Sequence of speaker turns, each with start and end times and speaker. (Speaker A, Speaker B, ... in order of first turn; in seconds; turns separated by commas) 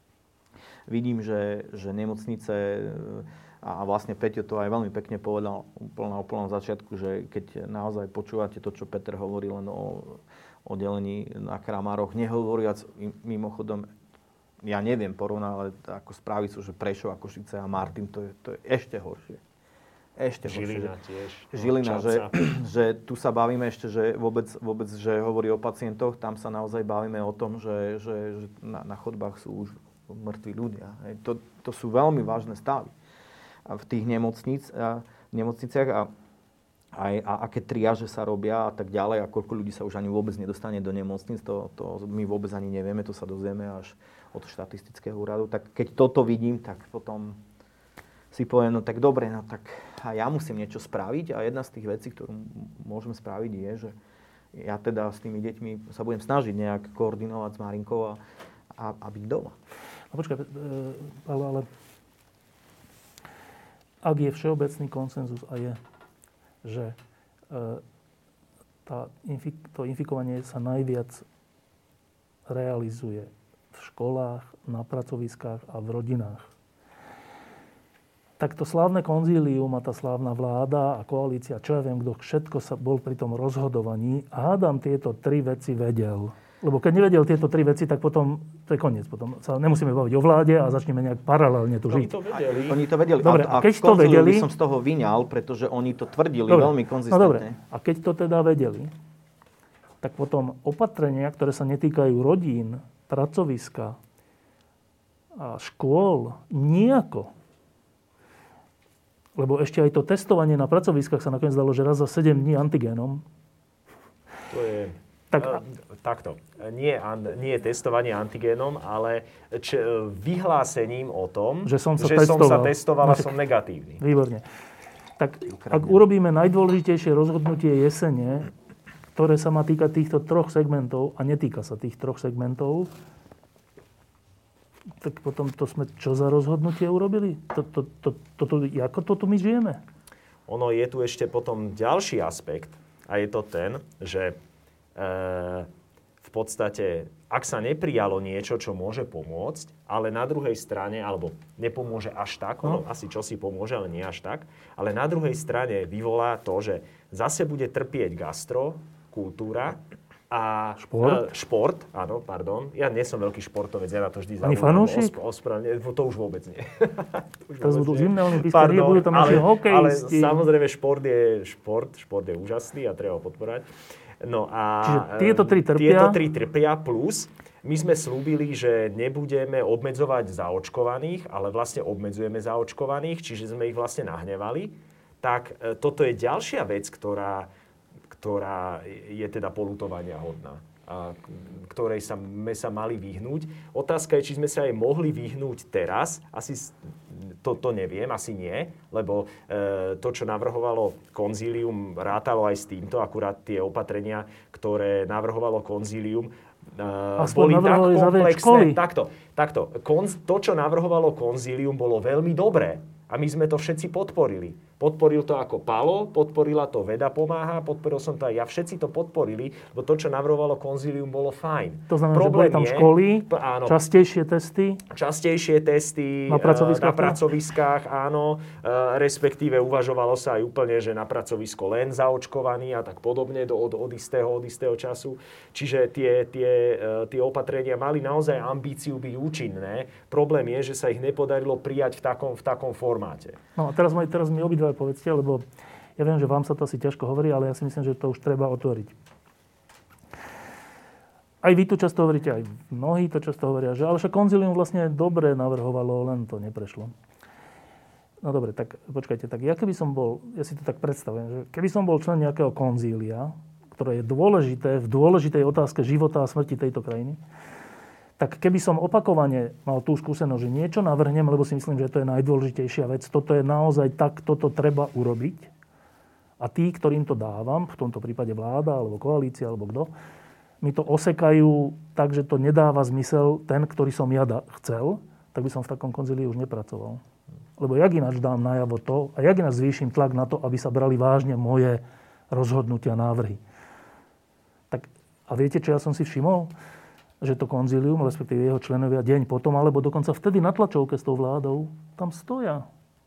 Speaker A: 0.9-13.9, Speaker A: 14.6-19.4, Speaker A: 20.2-20.9, Speaker B: 20.4-22.3, Speaker A: 21.5-32.9, Speaker A: 33.6-36.1, Speaker A: 36.9-47.4, Speaker A: 48.3-53.9, Speaker A: 54.5-58.2, Speaker A: 58.7-59.5, Speaker C: 60.1-61.6, Speaker C: 64.0-65.8, Speaker C: 66.6-67.0, Speaker C: 67.5-67.8, Speaker C: 68.8-71.2, Speaker C: 72.5-76.5, Speaker C: 78.4-92.1, Speaker B: 91.9-92.8, Speaker A: 92.7-97.6, Speaker C: 93.2-94.5, Speaker C: 96.5-98.9, Speaker C: 100.0-104.0, Speaker C: 105.4-107.3, Speaker C: 109.4-113.2, Speaker B: 114.5-124.0, Speaker C: 115.3-115.6, Speaker C: 121.6-123.3, Speaker C: 124.0-124.4, Speaker C: 125.2-128.5, Speaker A: 125.5-126.0, Speaker C: 129.2-132.9, Speaker C: 135.0-139.8, Speaker B: 140.5-144.3, Speaker B: 144.9-145.7, Speaker B: 146.2-159.8, Speaker B: 160.3-173.7, Speaker C: 160.8-161.2, Speaker C: 164.4-165.1, Speaker C: 167.6-170.4, Speaker B: 174.2-187.5, Speaker C: 174.8-176.2, Speaker B: 188.1-223.8, Speaker C: 207.2-208.8, Speaker C: 221.9-224.8, Speaker B: 224.9-243.4, Speaker C: 226.3-227.2, Speaker C: 243.6-245.4, Speaker C: 246.0-248.9, Speaker C: 251.4-256.9, Speaker C: 258.2-267.2, Speaker C: 268.2-275.5, Speaker C: 276.4-279.9, Speaker C: 280.6-287.0, Speaker C: 287.6-293.4, Speaker C: 294.7-296.5, Speaker C: 297.2-302.7